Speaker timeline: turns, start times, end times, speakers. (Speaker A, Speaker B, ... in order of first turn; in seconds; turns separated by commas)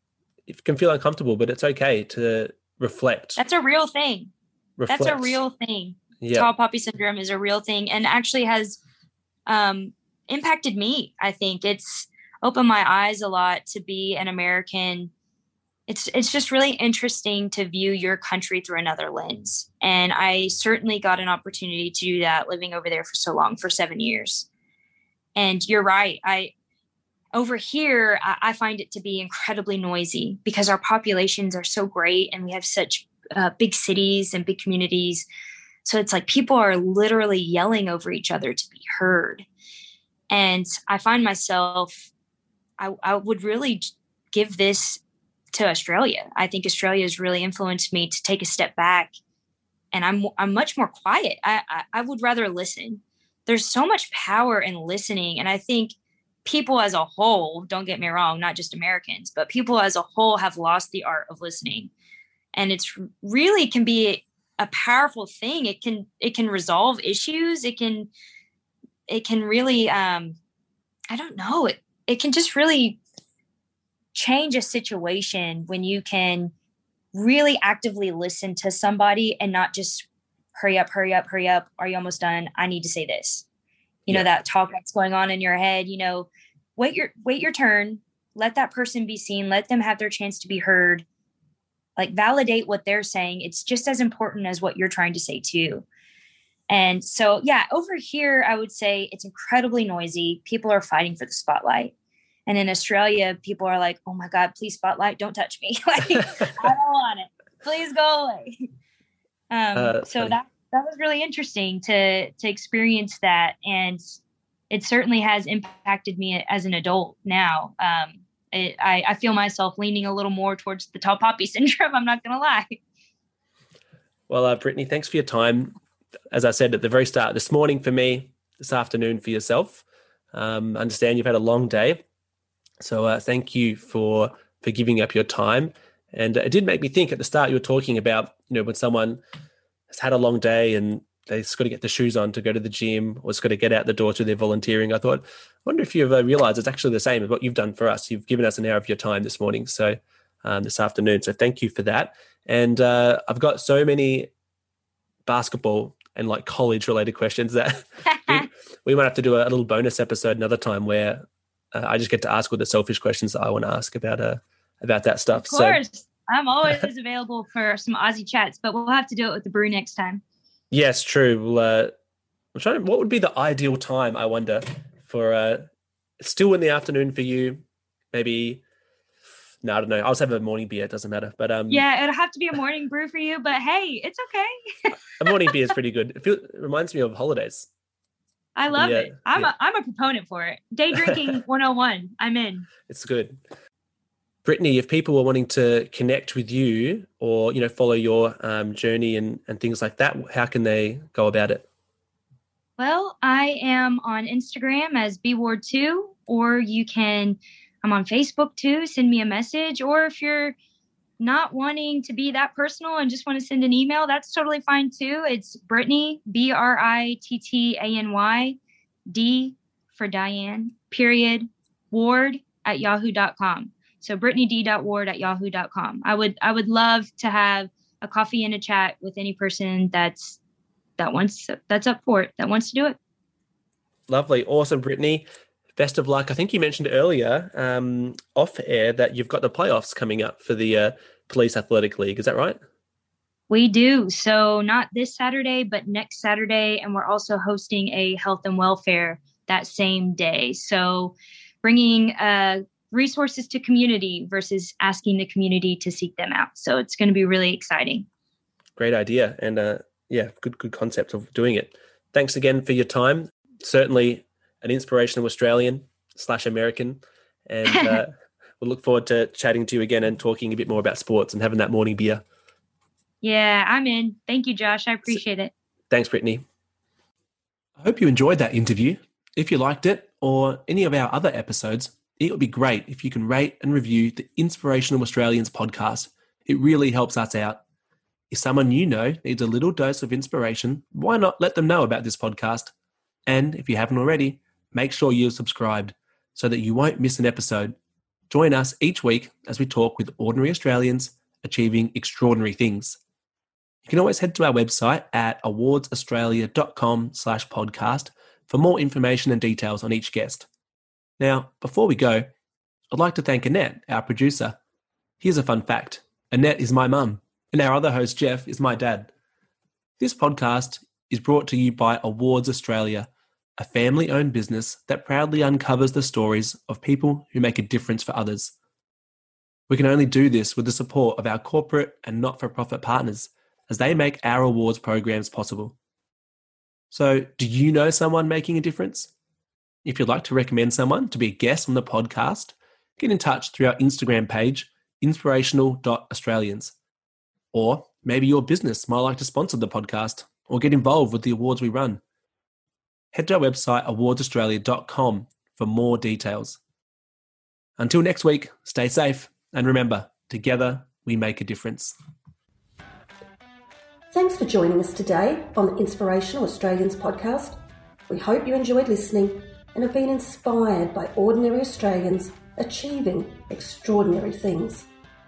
Speaker A: 0.5-3.4, Speaker B: 3.4-4.3, Speaker A: 4.8-5.4, Speaker B: 4.9-8.8, Speaker A: 6.2-6.5, Speaker B: 9.5-15.1, Speaker B: 15.9-24.5, Speaker B: 25.3-26.5, Speaker B: 27.3-35.2, Speaker B: 35.8-39.4, Speaker B: 40.3-42.1, Speaker B: 42.8-45.0, Speaker B: 45.5-49.1, Speaker B: 49.9-61.9, Speaker B: 62.5-68.1, Speaker B: 69.1-70.4, Speaker B: 71.1-73.0, Speaker B: 74.1-76.5, Speaker B: 77.1-83.5, Speaker B: 84.1-91.0, Speaker B: 92.0-95.8, Speaker B: 96.7-101.9, Speaker B: 102.5-108.7, Speaker B: 109.5-114.0, Speaker A: 109.7-110.4, Speaker B: 114.7-122.8, Speaker A: 124.3-125.7, Speaker A: 126.3-132.0, Speaker A: 132.8-139.2, Speaker A: 139.9-154.3, Speaker A: 155.2-165.8, Speaker B: 158.1-158.5, Speaker B: 165.3-170.2, Speaker A: 170.7-171.9, Speaker A: 172.5-175.7, Speaker A: 176.2-178.6, Speaker A: 179.6-181.8, Speaker B: 181.7-185.5, Speaker A: 185.2-187.7, Speaker B: 188.6-192.7, Speaker A: 188.7-189.5, Speaker A: 191.0-191.3, Speaker A: 192.8-193.4, Speaker A: 194.4-201.6, Speaker B: 202.8-210.6, Speaker B: 211.2-218.6, Speaker B: 219.1-230.4, Speaker B: 231.0-233.0, Speaker A: 234.1-242.6, Speaker B: 243.5-258.1, Speaker A: 258.8-272.2, Speaker B: 267.7-268.0, Speaker B: 273.2-275.5, Speaker A: 275.9-276.4, Speaker A: 277.8-287.6, Speaker A: 288.3-292.7, Speaker A: 293.2-297.8, Speaker A: 298.3-303.0, Speaker A: 303.9-310.5, Speaker A: 311.2-312.3, Speaker A: 312.9-314.6, Speaker A: 315.2-319.1, Speaker A: 320.0-328.5, Speaker A: 329.7-335.7, Speaker A: 336.9-339.1, Speaker A: 339.8-346.7, Speaker A: 347.5-352.0, Speaker A: 353.1-356.6, Speaker A: 357.8-361.9, Speaker C: 364.1-374.9